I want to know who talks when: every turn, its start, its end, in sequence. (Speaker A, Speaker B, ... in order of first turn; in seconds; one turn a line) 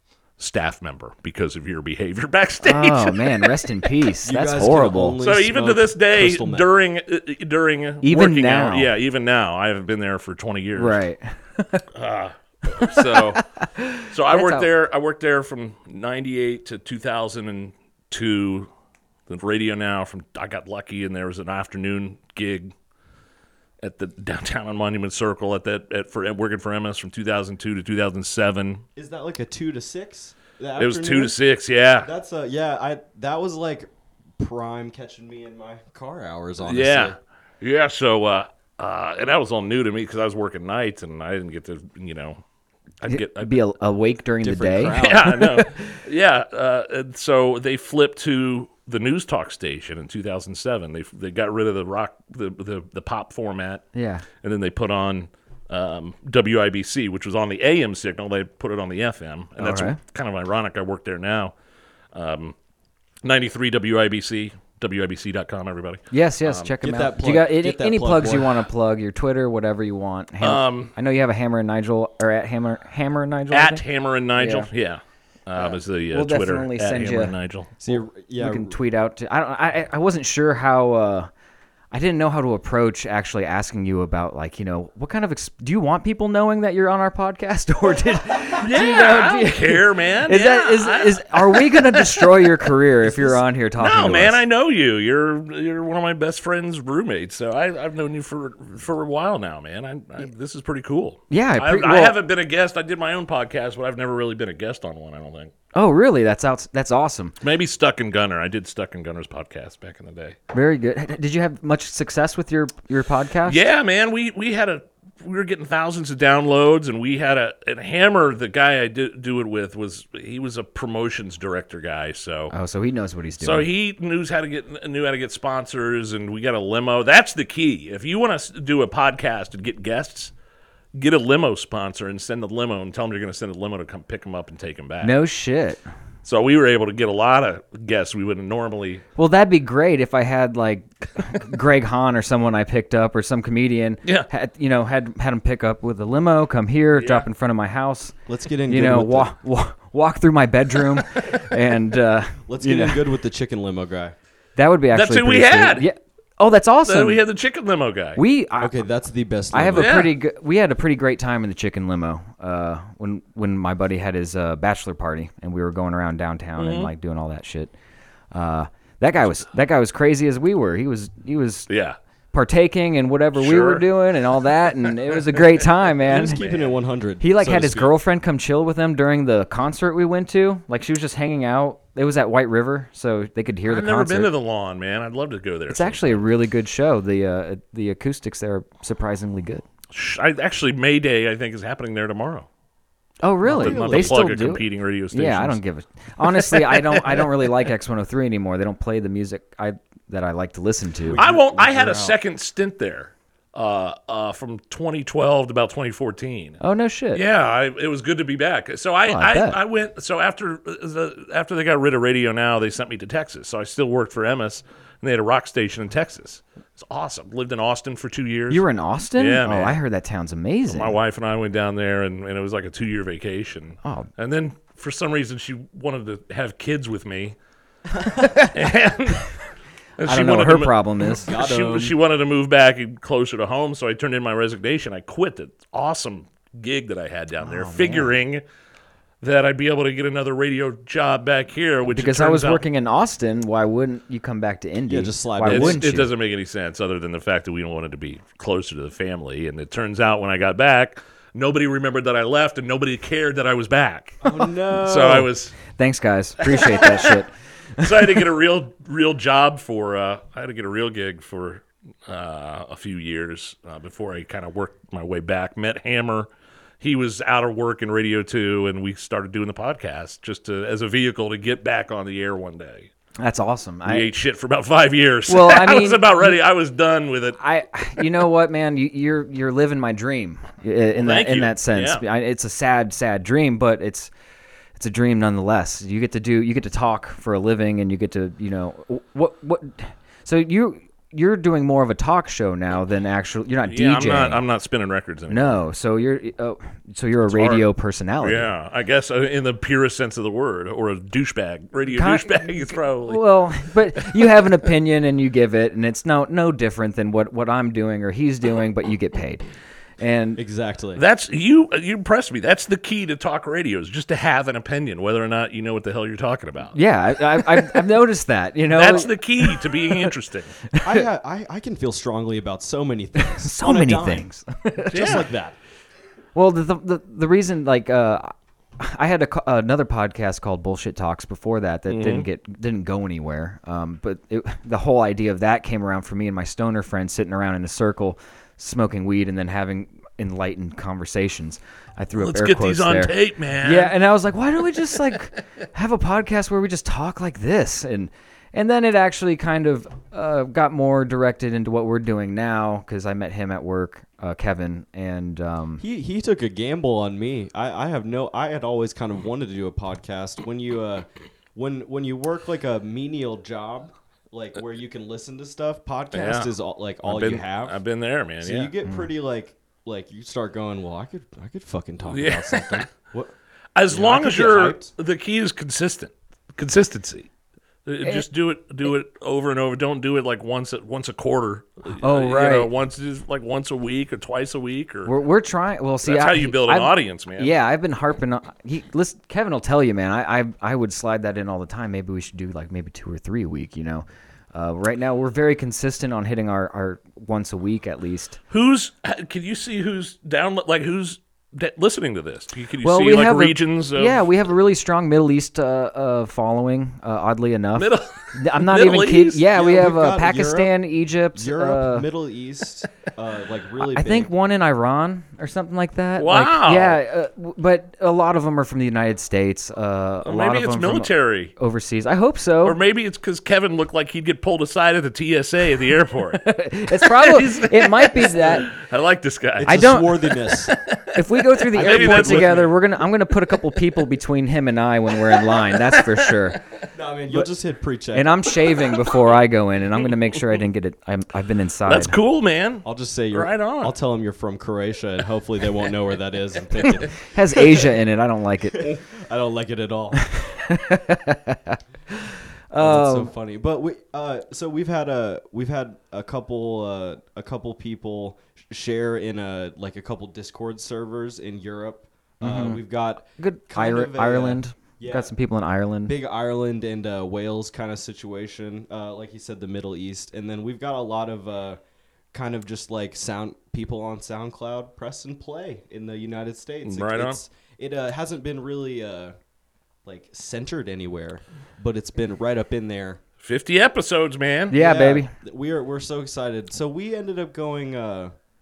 Speaker A: 0.4-3.5
Speaker B: 2.6-5.2
Speaker C: 4.2-6.7
Speaker A: 5.2-11.0
Speaker B: 8.0-8.9
Speaker B: 10.8-11.8
Speaker A: 11.9-13.4
Speaker B: 12.7-14.7
Speaker A: 14.1-18.7
Speaker A: 19.3-22.7
Speaker A: 23.8-28.8
Speaker C: 28.9-31.4
Speaker A: 30.8-32.1
Speaker C: 32.0-37.1
Speaker A: 36.6-42.4
Speaker A: 43.0-43.6
Speaker B: 43.1-45.8
Speaker C: 44.4-45.4
Speaker A: 44.9-53.8
Speaker B: 53.9-54.2
Speaker A: 54.4-61.5
Speaker B: 59.6-60.0
Speaker A: 62.1-62.5
Speaker A: 63.2-66.7
Speaker B: 66.1-73.8
Speaker C: 66.8-68.6
Speaker A: 70.4-70.9
Speaker A: 73.5-77.7
Speaker B: 74.4-74.7
Speaker B: 76.1-77.3
Speaker C: 77.8-78.8
Speaker B: 77.8-81.3
Speaker B: 81.9-94.4
Speaker A: 88.6-92.7
Speaker C: 93.0-93.4
Speaker A: 93.8-105.5
Speaker B: 101.3-102.2
Speaker B: 105.7-107.3
Speaker A: 107.4-110.4
Speaker B: 110.5-113.6
Speaker A: 113.5-122.5
Speaker B: 122.5-123.7
Speaker A: 123.4-130.3
Speaker A: 130.9-135.2
Speaker B: 135.0-135.8
Speaker A: 136.2-139.0
Speaker B: 139.2-148.1
Speaker A: 146.9-147.3
Speaker C: 148.3-149.3
Speaker B: 148.7-153.1
Speaker C: 152.5-154.1
Speaker B: 154.6-157.2
Speaker A: 154.9-155.9
Speaker A: 156.8-158.2
Speaker B: 158.2-158.8
Speaker C: 158.6-160.0
Speaker B: 159.5-167.7
Speaker A: 159.7-160.1
Speaker A: 166.6-166.9
Speaker B: 168.3-171.7
Speaker A: 171.7-172.0
Speaker B: 172.3-176.4
Speaker A: 173.3-173.9
Speaker C: 176.1-177.9
Speaker B: 177.2-184.3
Speaker A: 183.7-186.2
Speaker B: 185.7-189.6
Speaker A: 189.9-192.5
Speaker B: 193.2-201.2
Speaker C: 193.4-194.2
Speaker A: 193.5-195.6
Speaker A: 196.2-197.5
Speaker C: 201.0-202.2
Speaker A: 201.2-206.6
Speaker B: 206.6-207.2
Speaker A: 207.1-218.6
Speaker B: 209.1-209.6
Speaker B: 218.5-221.0
Speaker A: 219.2-219.8
Speaker A: 220.7-227.3
Speaker B: 223.8-224.1
Speaker B: 228.2-228.5
Speaker A: 228.4-229.3
Speaker A: 230.0-238.4
Speaker B: 230.1-231.3
Speaker C: 231.2-232.0
Speaker B: 237.4-238.1
Speaker A: 239.2-242.6
Speaker B: 241.9-246.1
Speaker C: 244.9-245.9
Speaker A: 245.4-254.2
Speaker C: 254.2-255.3
Speaker A: 254.8-255.6
Speaker B: 255.7-258.2
Speaker A: 256.4-257.2
Speaker A: 257.8-266.3
Speaker A: 266.8-272.9
Speaker B: 273.2-274.1
Speaker A: 273.9-277.4
Speaker B: 275.3-276.4
Speaker B: 277.4-284.1
Speaker A: 281.0-282.0
Speaker B: 284.8-294.4
Speaker A: 293.7-295.6
Speaker B: 295.3-298.5
Speaker A: 297.3-297.7
Speaker A: 298.2-303.4
Speaker B: 301.9-309.4
Speaker A: 303.9-304.3
Speaker B: 310.0-310.4
Speaker C: 310.4-311.0
Speaker A: 311.0-316.8
Speaker B: 316.7-320.1
Speaker A: 317.4-317.7
Speaker A: 318.7-320.5
Speaker B: 320.7-321.0
Speaker C: 320.8-324.2
Speaker B: 323.2-325.2
Speaker C: 324.9-325.6
Speaker A: 324.9-325.2
Speaker B: 326.3-355.8
Speaker A: 331.9-332.3
Speaker A: 342.2-343.9
Speaker C: 355.8-367.8
Speaker A: 366.1-366.5
Speaker A: 367.0-368.7
Speaker C: 368.4-373.3
Speaker A: 372.1-372.9
Speaker A: 373.8-377.3
Speaker C: 373.9-374.9
Speaker A: 377.9-385.1
Speaker B: 382.0-382.7
Speaker B: 385.1-398.4
Speaker A: 386.0-387.5
Speaker A: 398.5-404.3
Speaker B: 402.8-412.1
Speaker A: 407.8-409.5
Speaker C: 409.5-410.7
Speaker C: 411.4-414.3
Speaker B: 413.8-422.8
Speaker A: 416.2-417.0
Speaker A: 420.2-421.5
Speaker A: 422.6-432.8
Speaker B: 426.3-428.7
Speaker C: 429.6-430.8
Speaker B: 429.6-430.1
Speaker B: 431.1-436.6
Speaker C: 431.7-432.7
Speaker A: 435.3-436.6
Speaker C: 436.9-438.5
Speaker B: 438.1-442.2
Speaker A: 441.9-443.9
Speaker C: 442.8-448.0
Speaker B: 446.8-448.9
Speaker C: 448.7-450.2
Speaker B: 450.3-453.3
Speaker C: 452.8-465.3
Speaker B: 462.4-462.8
Speaker B: 463.4-466.1
Speaker C: 466.1-471.8
Speaker C: 472.3-479.3
Speaker A: 476.8-477.4
Speaker C: 480.0-483.2
Speaker A: 483.4-484.8
Speaker B: 484.7-485.3
Speaker C: 484.7-488.3